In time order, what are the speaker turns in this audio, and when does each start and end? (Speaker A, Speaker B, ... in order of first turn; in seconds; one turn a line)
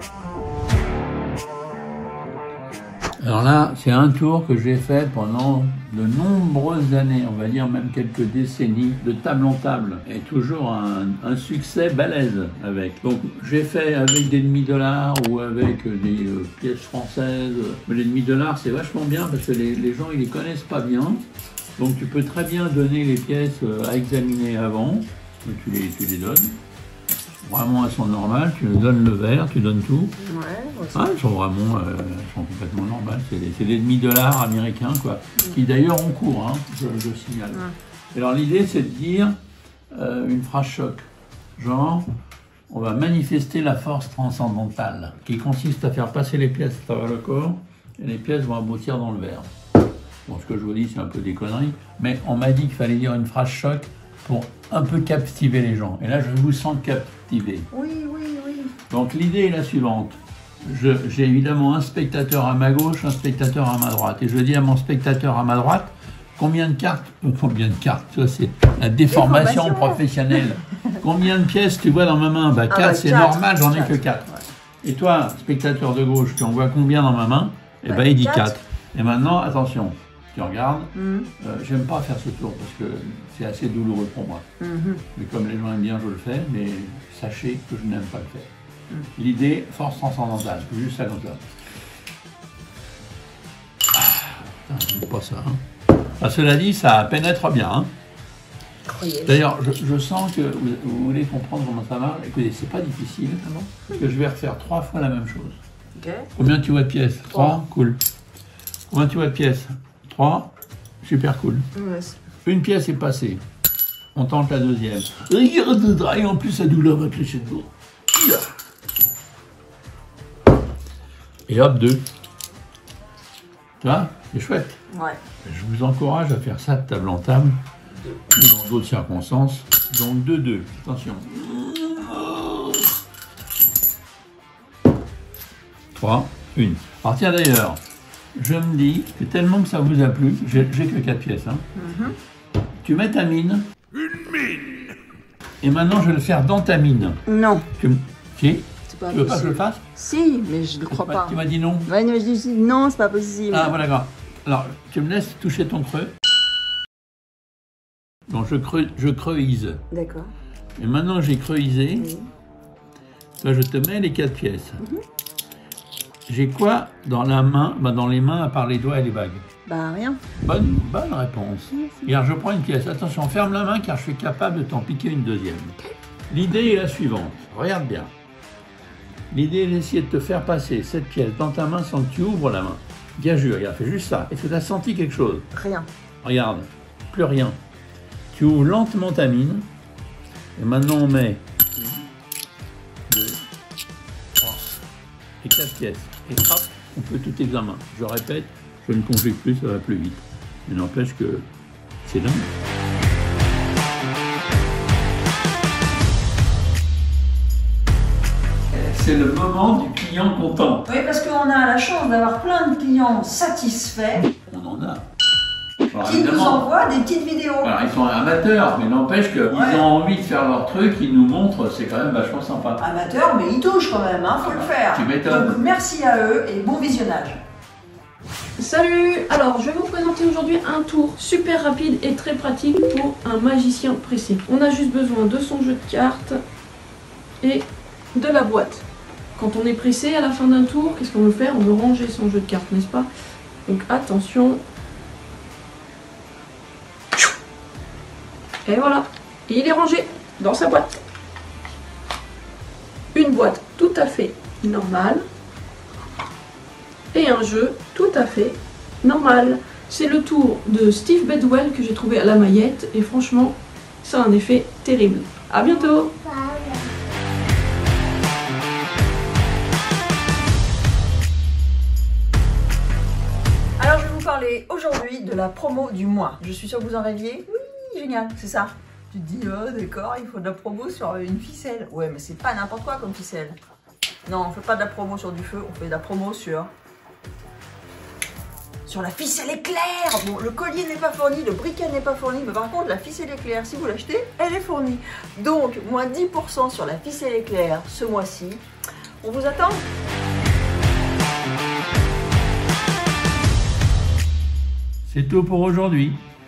Speaker A: 3.2-21.2
Speaker A: 21.8-26.6
Speaker A: 27.4-30.2
Speaker B: 30.2-31.1
Speaker A: 30.9-39.4
Speaker A: 39.9-42.1
Speaker A: 42.7-49.5
Speaker A: 50.2-57.7
Speaker B: 57.7-58.7
Speaker A: 58.9-74.3
Speaker B: 69.1-71.0
Speaker B: 72.7-74.4
Speaker A: 74.8-84.5
Speaker B: 77.8-78.5
Speaker B: 80.9-81.3
Speaker B: 84.6-85.0
Speaker A: 85.1-88.5
Speaker A: 89.2-91.5
Speaker A: 93.9-95.6
Speaker A: 96.2-97.9
Speaker B: 98.8-99.4
Speaker A: 99.2-105.6
Speaker B: 106.0-106.3
Speaker A: 106.3-108.0
Speaker B: 107.3-107.6
Speaker A: 108.9-110.5
Speaker A: 111.0-111.7
Speaker B: 111.7-112.2
Speaker A: 112.4-113.4
Speaker A: 114.1-118.5
Speaker A: 121.5-122.0
Speaker A: 123.8-124.8
Speaker B: 124.9-125.2
Speaker A: 125.4-127.6
Speaker A: 128.3-132.9
Speaker A: 135.9-137.8
Speaker A: 138.3-141.6
Speaker B: 141.7-142.2
Speaker A: 142.8-143.7
Speaker A: 145.6-147.2
Speaker B: 147.2-147.7
Speaker A: 147.8-149.8
Speaker B: 148.9-153.7
Speaker A: 150.8-151.9
Speaker A: 153.5-156.1
Speaker A: 158.3-159.8
Speaker B: 159.9-160.3
Speaker A: 160.8-162.1
Speaker B: 161.9-162.3
Speaker A: 163.4-164.8
Speaker A: 166.3-169.4
Speaker B: 169.7-170.2
Speaker A: 170.4-175.8
Speaker B: 171.8-172.1
Speaker A: 176.3-178.1
Speaker A: 179.3-185.5
Speaker B: 185.5-185.9
Speaker A: 186.2-187.6
Speaker A: 188.3-189.7
Speaker A: 190.6-191.9
Speaker A: 193.1-193.4
Speaker A: 194.4-194.7
Speaker A: 195.4-201.5
Speaker A: 202.0-202.5
Speaker A: 208.7-210.9
Speaker B: 210.8-214.3
Speaker A: 214.4-215.1
Speaker A: 215.9-216.7
Speaker B: 216.0-217.7
Speaker A: 217.6-222.8
Speaker B: 219.5-219.8
Speaker B: 222.8-227.4
Speaker A: 224.4-225.6
Speaker C: 228.6-236.4
Speaker C: 237.4-238.8
Speaker C: 239.3-243.1
Speaker C: 243.7-244.6
Speaker C: 248.6-251.0
Speaker C: 253.1-255.2
Speaker C: 257.1-266.1
Speaker B: 273.8-283.6
Speaker B: 284.2-286.7
Speaker B: 288.9-298.6
Speaker B: 299.2-299.9
Speaker A: 305.0-306.2